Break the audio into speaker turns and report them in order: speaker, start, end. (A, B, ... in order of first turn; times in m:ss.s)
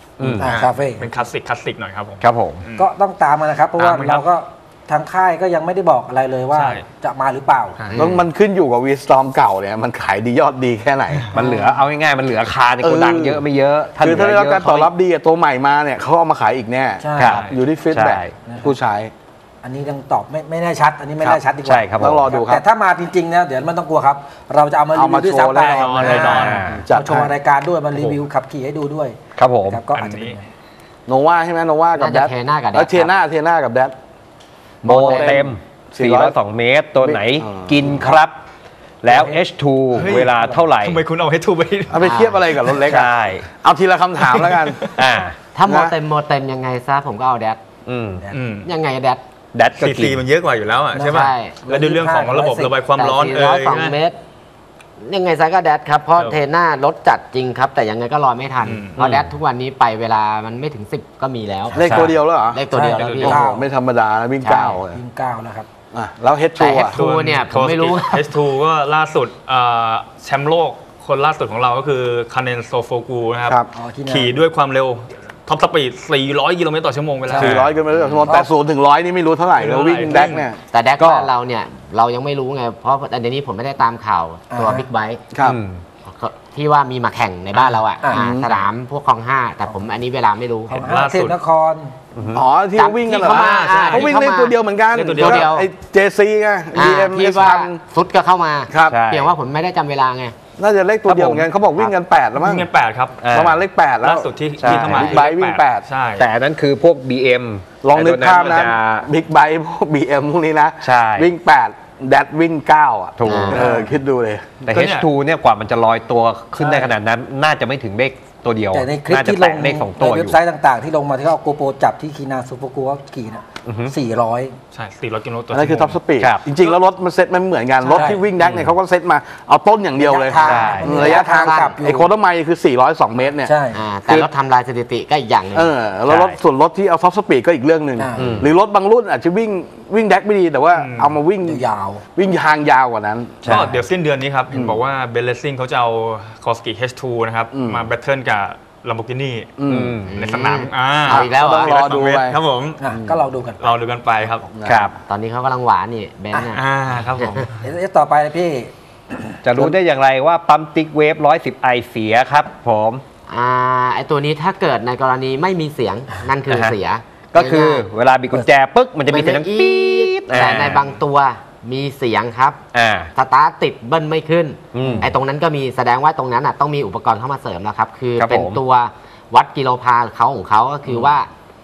0:00.2-0:00.5 A
0:00.4-0:01.1 B
0:00.4-0:02.9 C
0:02.2-0:02.6 A
0:02.7-0:07.8 B
0:03.8-0:04.3 C
0:06.5-0:06.8 C
0:07.8-0:08.1 C
0:07.9-0:08.2 D
0:08.0-0:11.3 E
0:11.3-0:11.8 B
0:11.3-0:14.9 A
0:12.8-0:13.4 E
0:14.0-0:19.1 E
0:17.0-0:17.4 B
0:17.2-0:18.3 A
0:17.3-0:17.6 C
0:18.4-0:18.8 B
0:19.6-0:30.5 B
0:21.3-0:22.2 A
0:22.0-0:22.6 E
0:24.9-0:27.4 E
0:25.6-0:26.6 C
0:26.3-0:26.8 A
0:29.4-0:29.8 A
0:29.9-0:30.4 C
0:31.1-0:33.9 E
0:31.9-0:33.1 D
0:34.8-0:36.4 E
0:34.8-0:38.4 A
0:35.0-0:35.4 D
0:37.0-0:37.9 E
0:39.0-0:41.0 A
0:39.0-0:39.4 B
0:39.9-0:42.9 C
0:40.2-0:40.6 B
0:41.9-0:44.9 E
0:42.0-0:42.4 D
0:42.9-0:43.4 A
0:44.2-0:45.0 C
0:45.0-0:45.4 A
0:45.5-0:47.6 D
0:45.6-0:45.9 E
0:47.9-0:48.2 A
0:48.3-0:48.7 C
0:48.6-0:49.2 D
0:49.5-0:50.2 A
0:49.8-0:54.0 C
0:50.9-0:52.8 B
0:51.1-0:51.8 D
0:52.9-0:54.2 D
0:55.0-1:01.8 D
0:58.6-0:59.0 C
0:59.0-0:59.3 A
1:01.7-1:02.2 B
1:01.8-1:02.6 E
1:01.8-1:02.1 A
1:02.5-1:03.4 D
1:02.7-1:03.7 B
1:03.0-1:03.3 C
1:03.2-1:05.0 E
1:04.4-1:04.8 D
1:04.9-1:05.7 B
1:05.9-1:06.9 E
1:06.6-1:08.3 D
1:06.9-1:17.6 C
1:13.7-1:14.4 B
1:17.4-1:21.3 E
1:17.4-1:17.7 A
1:17.9-1:18.2 D
1:18.2-1:18.5 B
1:19.5-1:20.5 C
1:20.7-1:25.2 D
1:24.5-1:24.9 B
1:25.3-1:25.6 E
1:25.4-1:25.8 A
1:26.0-1:30.8 D
1:28.0-1:28.3 B
1:28.1-1:28.6 E
1:30.7-1:31.9 B
1:30.7-1:31.4 C
1:32.2-1:32.4 A
1:32.3-1:37.8 E
1:32.8-1:34.6 D
1:33.0-1:34.1 C
1:34.9-1:35.5 C
1:35.2-1:35.7 D
1:36.7-1:40.3 D
1:38.7-1:39.0 E
1:38.8-1:39.3 A
1:40.6-1:42.7 E
1:41.1-1:41.5 A
1:42.4-1:43.2 C
1:43.2-1:43.6 A
1:43.3-1:45.9 E
1:44.0-1:46.3 C
1:44.6-1:45.2 A
1:46.2-1:49.1 A
1:47.8-1:54.6 E
1:50.8-1:51.3 A
1:53.2-1:53.5 A
1:53.2-1:53.6 D
1:53.5-1:54.0 B
1:54.7-1:55.1 C
1:54.7-2:00.4 A
1:56.6-1:56.9 B
1:58.7-2:04.5 B
2:03.6-2:03.9 A
2:04.7-2:06.0 C
2:05.5-2:13.5 E
2:07.8-2:08.2 B
2:08.4-2:08.7 A
2:09.9-2:12.1 B
2:10.4-2:10.9 A
2:10.9-2:11.8 D
2:13.4-2:13.8 B
2:13.7-2:15.7 D
2:15.5-2:21.6 E
2:16.1-2:16.3 A
2:18.0-2:18.3 B
2:18.2-2:18.5 A
2:20.7-2:21.2 C
2:21.4-2:22.0 B
2:22.2-2:23.4 E
2:23.4-2:23.8 A
2:23.5-2:29.5 C
2:24.5-2:24.8 E
2:27.5-2:27.9 E
2:29.6-2:30.0 E
2:29.7-2:30.1 A
2:30.0-2:31.8 D
2:30.1-2:32.8 C
2:31.1-2:32.4 E
2:32.8-2:33.7 B
2:33.6-2:34.5 C
2:34.6-2:34.9 E
2:34.6-2:35.0 A
2:35.1-2:36.6 D
2:36.3-2:37.6 C
2:37.6-2:39.4 B
2:39.4-2:43.0 A
2:43.3-2:47.8 D
2:46.4-2:46.7 A
2:47.3-2:50.9 A
2:49.0-2:52.6 D
2:52.7-2:53.1 A
2:53.1-3:01.3 D
2:54.7-2:55.1 A
2:54.8-2:55.1 B
2:58.2-2:58.6 A
3:00.9-3:01.1 A